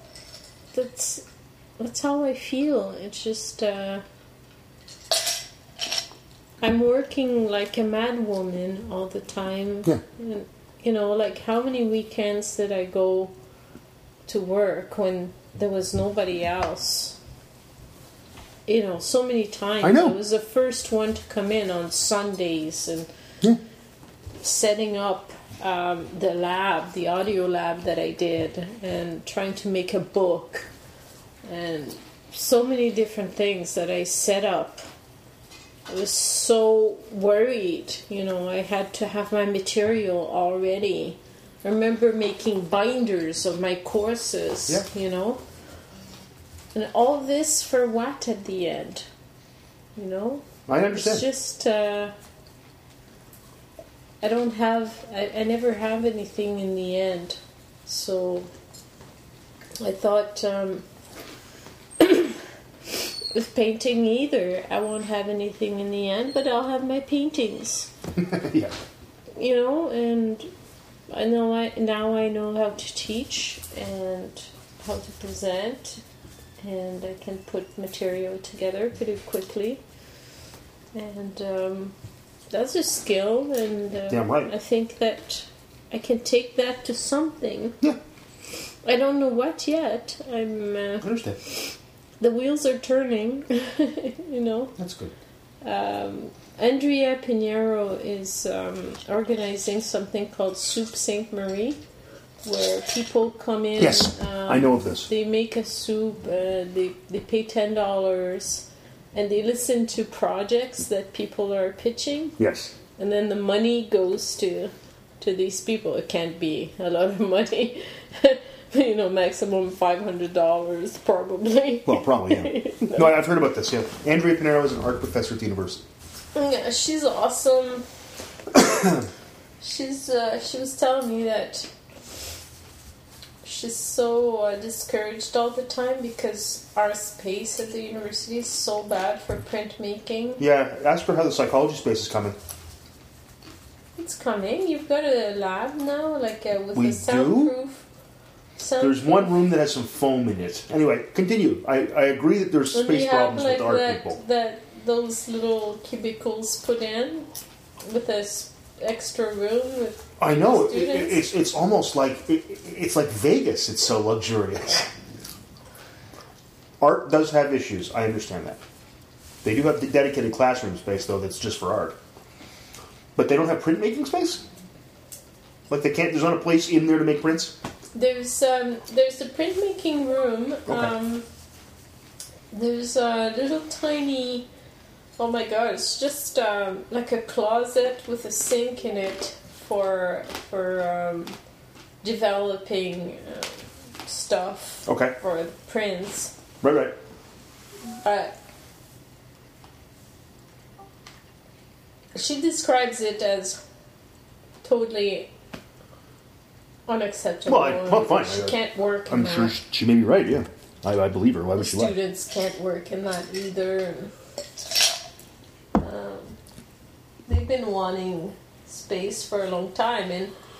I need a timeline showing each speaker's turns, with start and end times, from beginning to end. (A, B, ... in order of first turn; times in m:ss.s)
0:00.7-0:01.2 A
0:01.8-0:04.0 A
0:06.6-0:13.3 A
0:14.2-0:17.2 A
0:18.7-0:23.1 A
0:19.8-0:20.2 B
0:24.4-0:30.7 A
0:31.4-0:34.8 A
0:35.9-0:45.4 A
0:46.7-0:49.1 A
0:50.0-0:52.1 A
0:50.7-0:51.2 B
0:54.2-0:58.5 A
0:59.8-1:00.8 A
1:02.0-1:02.4 A
1:02.9-1:07.9 A
1:08.2-1:08.7 B
1:09.4-1:10.5 A
1:11.1-1:16.0 A
1:16.6-1:19.8 A
1:20.9-1:21.9 A
1:22.5-1:27.8 A
1:24.1-1:24.5 B
1:28.8-1:34.8 A
1:31.0-1:31.4 B
1:34.8-1:35.1 B
1:35.6-1:41.8 A
1:42.4-1:52.4 A
1:43.8-1:45.1 B
1:52.4-1:52.7 B
1:53.0-2:03.1 A
2:01.8-2:05.8 B
2:06.3-2:07.8 A
2:08.6-2:08.9 B
2:09.6-2:11.7 A
2:13.4-2:20.4 A
2:20.4-2:22.4 B
2:24.0-2:27.8 A
2:26.7-2:27.5 B
2:28.6-2:29.4 A
2:28.8-2:34.2 B
2:32.7-2:37.3 A
2:37.8-2:41.3 A
2:40.2-2:44.9 B
2:46.8-2:48.6 B
2:49.4-2:52.0 B
2:53.2-2:54.4 B
2:55.7-2:57.6 B
2:57.9-3:01.2 A
3:00.7-3:00.9 B
3:02.5-3:04.5 A
3:05.2-3:11.4 A
3:12.0-3:16.3 A
3:14.8-3:15.1 B
3:16.6-3:17.0 B
3:18.0-3:18.3 A
3:22.1-3:23.6 A
3:24.6-3:25.3 A
3:26.9-3:29.6 A
3:27.4-3:31.9 B
3:31.6-3:34.1 A
3:35.8-3:36.4 A
3:37.3-3:40.3 A